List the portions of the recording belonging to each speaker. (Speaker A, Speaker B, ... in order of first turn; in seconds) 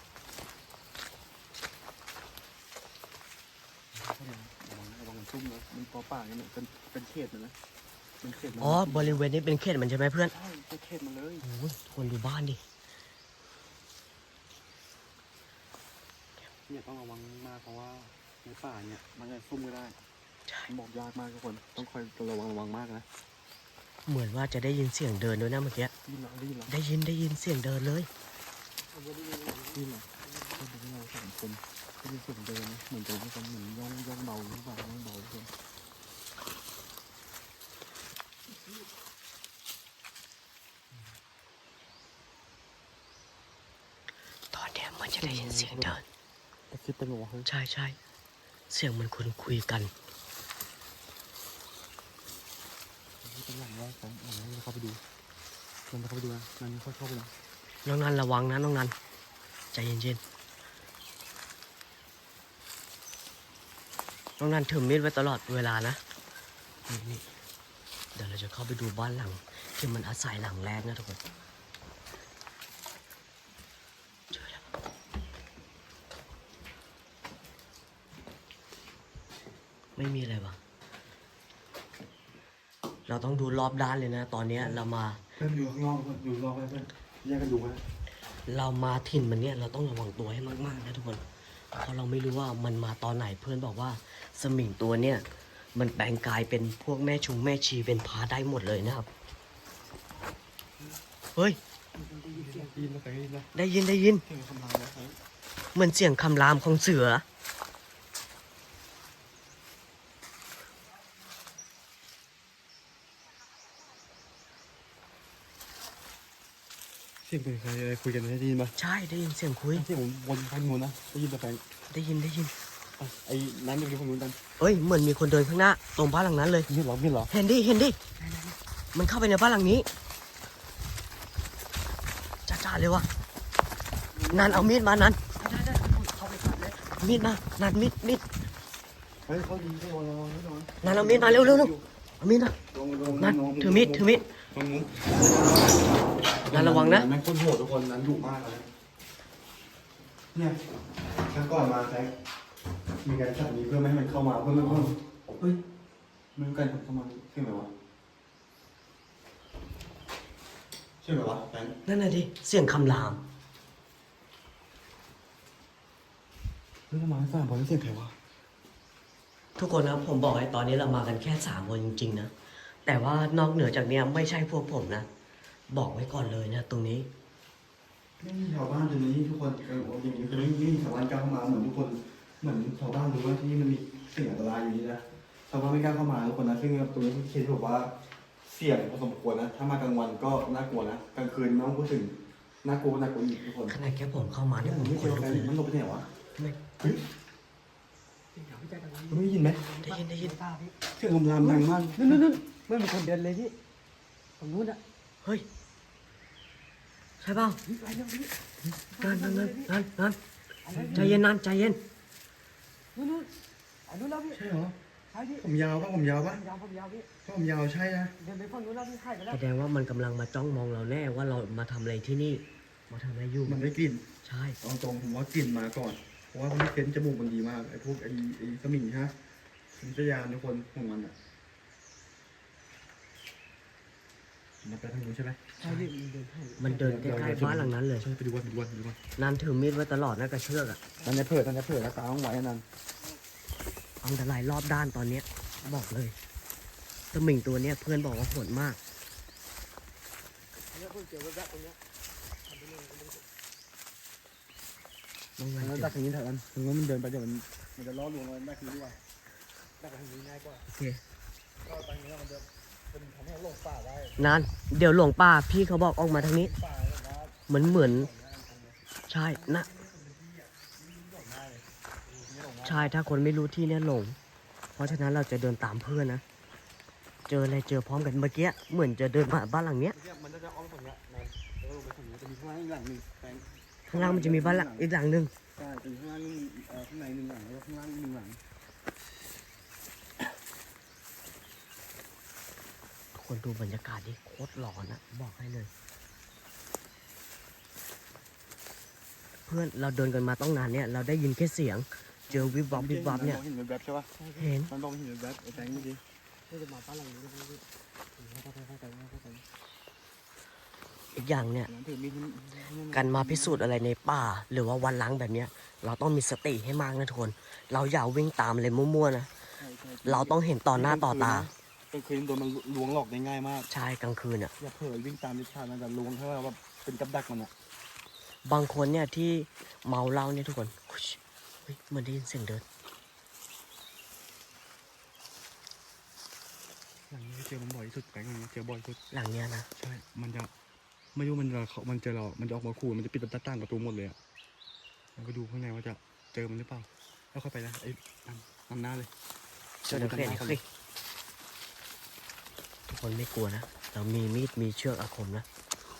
Speaker A: 3.9-7.5, 8.2-9.2, 10.3-11.4, 16.7-20.0, 20.7-23.1, 26.0-26.7, 29.7-35.5, 45.2-45.9, 46.7-47.5, 53.2-55.0, 55.9-57.3, 85.4-87.8, 102.3-103.5, 104.2-105.2, 117.2-118.7, 119.7-121.6, 123.0-124.4, 126.7-127.3, 134.1-134.7, 139.2-141.8, 142.7-148.7, 150.3-150.6, 151.2-152.1, 153.0-155.6, 156.3-157.7, 161.0-161.8, 166.9-168.1, 178.2-187.9, 188.4-193.8, 194.6-196.1, 196.8-197.0, 199.1-199.6, 200.9-202.2, 210.7-211.2, 214.3-214.8, 215.4-216.4, 217.2-218.1, 223.4-224.0, 224.6-229.1, 229.7-231.1, 234.6-235.5, 236.6-239.0, 241.0-242.6, 255.6-259.0, 259.8-260.6, 261.6-264.4, 266.1-268.8, 269.3-272.9, 279.9-284.9, 285.6-288.4, 302.3-304.1, 304.7-306.0, 311.7-313.7, 319.6-323.7, 324.6-327.5, 337.1-339.0, 339.8-340.5, 341.1-344.1, 345.1-349.1, 349.9-350.6
Speaker B: 8.6-10.3, 11.4-12.6, 24.1-25.9, 26.7-28.1, 44.5-46.0, 47.4-48.0, 48.7-49.9, 57.8-58.9, 59.7-60.2, 64.4-66.0, 66.9-67.2, 68.1-71.2, 74.3-74.6, 80.0-80.6, 83.1-85.2, 88.5-99.1, 103.5-104.2, 105.7-107.2, 118.8-119.8, 121.9-122.5, 124.6-126.7, 127.3-128.0, 128.9-129.9, 132.4-133.1, 134.3-135.2, 137.0-138.2, 140.8-142.6, 143.2-144.2, 146.5-147.1, 161.8-163.2, 169.6-172.3, 172.8-175.1, 175.7-177.1, 193.7-195.6, 199.8-200.3, 207.2-207.6, 209.0-210.2, 210.9-211.8, 219.3-223.7, 224.2-224.6, 235.6-235.9, 236.6-238.1, 239.2-240.8, 244.0-246.2, 247.1-248.8, 255.4-255.9, 260.7-261.0, 264.2-266.5, 267.5-268.1, 269.1-269.7, 272.6-274.2, 274.8-276.2, 277.3-280.0, 283.9-285.3, 293.1-295.7, 299.5-303.4, 304.4-304.7, 311.1-311.7, 312.9-319.3, 320.0-321.5, 323.7-324.5, 328.4-332.6, 339.1-339.7, 349.8-350.6, 352.9-355.4
Speaker C: 28.9-30.5, 101.9-103.0, 128.2-128.6, 135.4-136.9, 198.3-200.8, 201.4-203.5, 204.4-204.8, 207.6-208.4, 208.9-209.8, 210.6-211.1, 212.9-213.3, 213.8-214.4, 215.1-215.4, 216.3-217.1, 218.2-219.4, 235.6-237.2, 241.0-241.3, 250.7-251.8, 252.4-253.2, 304.2-304.5, 306.5-307.6, 308.1-309.4